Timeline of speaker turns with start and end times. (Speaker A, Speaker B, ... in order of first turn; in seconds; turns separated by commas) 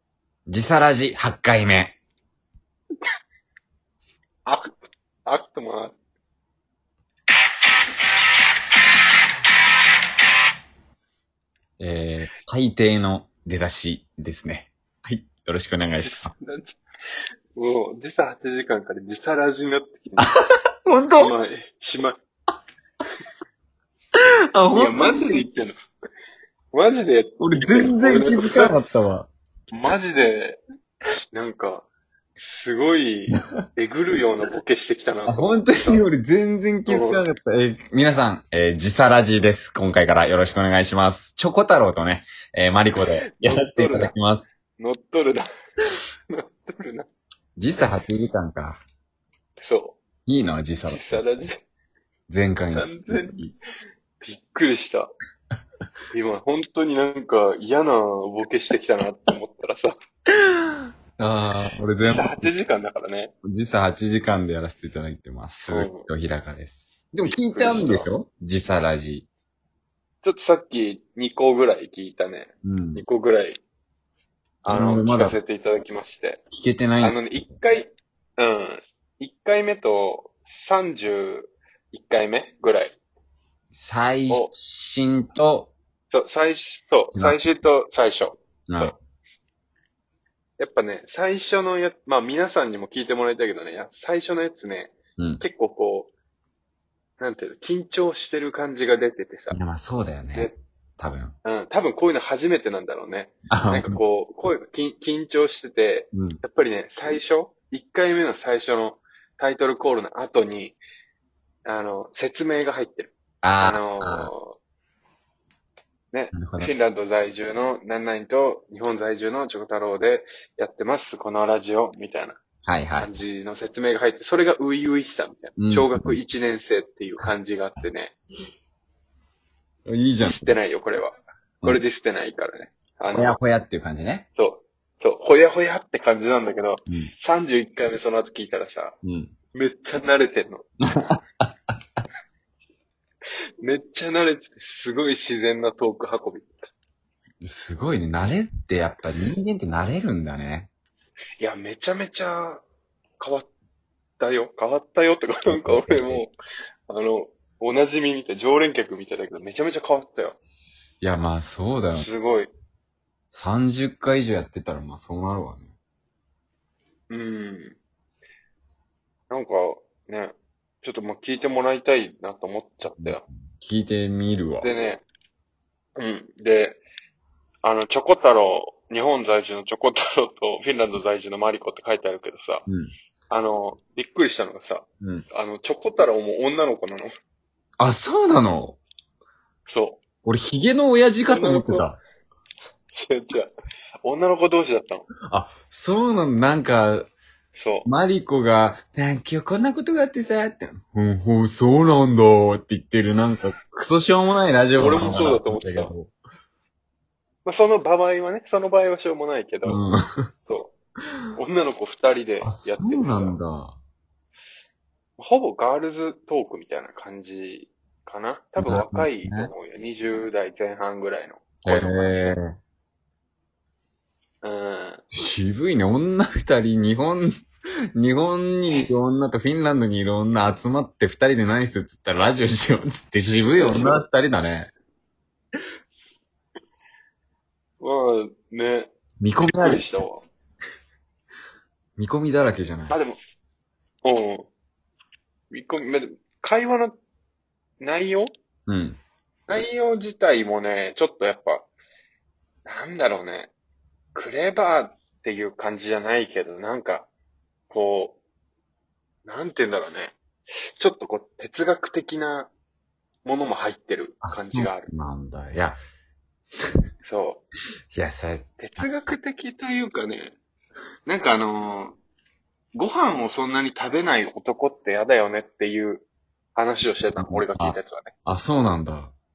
Speaker A: 0.5-2.0, Speaker B: 5.2-5.9, Speaker A: 11.8-16.3, Speaker B: 16.0-16.8, Speaker B: 17.6-20.3, Speaker A: 20.8-21.3, Speaker B: 21.2-22.2, Speaker A: 24.5-25.4, Speaker B: 24.7-25.7, Speaker B: 26.7-28.8, Speaker A: 27.4-29.3, Speaker B: 29.7-30.6, Speaker B: 31.3-31.9, Speaker B: 32.4-36.0, Speaker A: 35.3-44.5, Speaker B: 36.9-37.2, Speaker B: 43.0-44.1, Speaker B: 44.8-45.5, Speaker B: 46.3-47.1, Speaker A: 47.6-48.8, Speaker B: 49.6-50.0, Speaker A: 50.2-51.2, Speaker B: 50.9-51.6, Speaker A: 52.3-53.5, Speaker B: 52.7-53.4, Speaker B: 54.2-55.1, Speaker B: 56.1-59.9, Speaker A: 61.2-62.5, Speaker B: 62.1-63.3, Speaker A: 63.4-69.3, Speaker B: 65.7-66.1, Speaker B: 67.2-68.1, Speaker B: 70.2-73.6, Speaker A: 72.6-73.0, Speaker B: 74.6-76.4, Speaker A: 74.7-75.3, Speaker A: 76.5-77.4, Speaker B: 77.0-83.0, Speaker A: 83.7-85.7, Speaker B: 86.1-88.9, Speaker A: 87.1-87.4, Speaker A: 88.7-88.9, Speaker B: 90.6-96.1, Speaker A: 95.2-95.4, Speaker B: 97.2-99.6, Speaker A: 99.5-101.3, Speaker B: 101.4-110.8, Speaker A: 103.5-104.0, Speaker A: 106.1-106.4, Speaker B: 111.6-114.6, Speaker A: 113.4-114.3, Speaker B: 116.1-122.4, Speaker A: 116.3-116.7, Speaker A: 122.6-123.2, Speaker B: 123.0-128.1, Speaker A: 125.6-126.2, Speaker A: 129.8-130.6, Speaker B: 130.2-133.4, Speaker A: 133.1-134.2, Speaker B: 134.3-138.9, Speaker A: 139.0-139.3, Speaker B: 139.5-140.7, Speaker A: 140.9-141.5, Speaker B: 143.6-146.7, Speaker A: 147.4-150.7, Speaker B: 151.4-152.6, Speaker B: 153.2-153.5, Speaker B: 154.2-156.3, Speaker A: 155.5-156.2, Speaker B: 156.9-160.4, Speaker A: 161.0-162.1, Speaker B: 161.9-162.5, Speaker A: 163.3-165.7, Speaker B: 167.1-167.8, Speaker B: 169.3-173.2, Speaker A: 173.0-174.7, Speaker B: 174.6-175.0, Speaker B: 176.0-176.8, Speaker B: 177.6-182.6, Speaker A: 182.7-182.9, Speaker B: 183.3-187.1, Speaker A: 187.8-188.8, Speaker B: 189.7-190.0, Speaker A: 190.2-192.0, Speaker B: 191.3-191.9, Speaker B: 192.9-193.5, Speaker B: 194.0-195.1, Speaker A: 195.3-197.1, Speaker B: 197.6-197.9, Speaker A: 197.8-206.1, Speaker B: 204.8-205.9, Speaker B: 207.4-209.8, Speaker A: 209.6-209.9, Speaker B: 210.5-210.7, Speaker B: 211.3-213.4, Speaker A: 212.4-213.8, Speaker B: 215.2-222.1, Speaker A: 218.6-219.5, Speaker A: 221.6-222.6, Speaker B: 224.4-225.0, Speaker A: 225.1-227.3, Speaker A: 227.9-234.7, Speaker B: 233.6-234.0, Speaker B: 237.8-238.9, Speaker A: 239.2-239.8, Speaker B: 239.5-240.2, Speaker A: 242.0-242.9, Speaker B: 242.9-243.2, Speaker B: 244.0-244.5, Speaker B: 245.5-246.9, Speaker B: 247.8-248.3, Speaker A: 248.7-249.0, Speaker B: 249.5-251.7, Speaker B: 252.6-253.5, Speaker B: 254.1-257.1, Speaker B: 257.7-258.2, Speaker B: 259.2-260.1, Speaker B: 260.8-262.5, Speaker B: 263.2-264.9, Speaker A: 264.2-265.8, Speaker B: 267.0-267.4, Speaker A: 267.9-268.9, Speaker B: 268.6-270.4, Speaker B: 271.1-272.0, Speaker B: 272.7-278.1, Speaker A: 277.1-279.1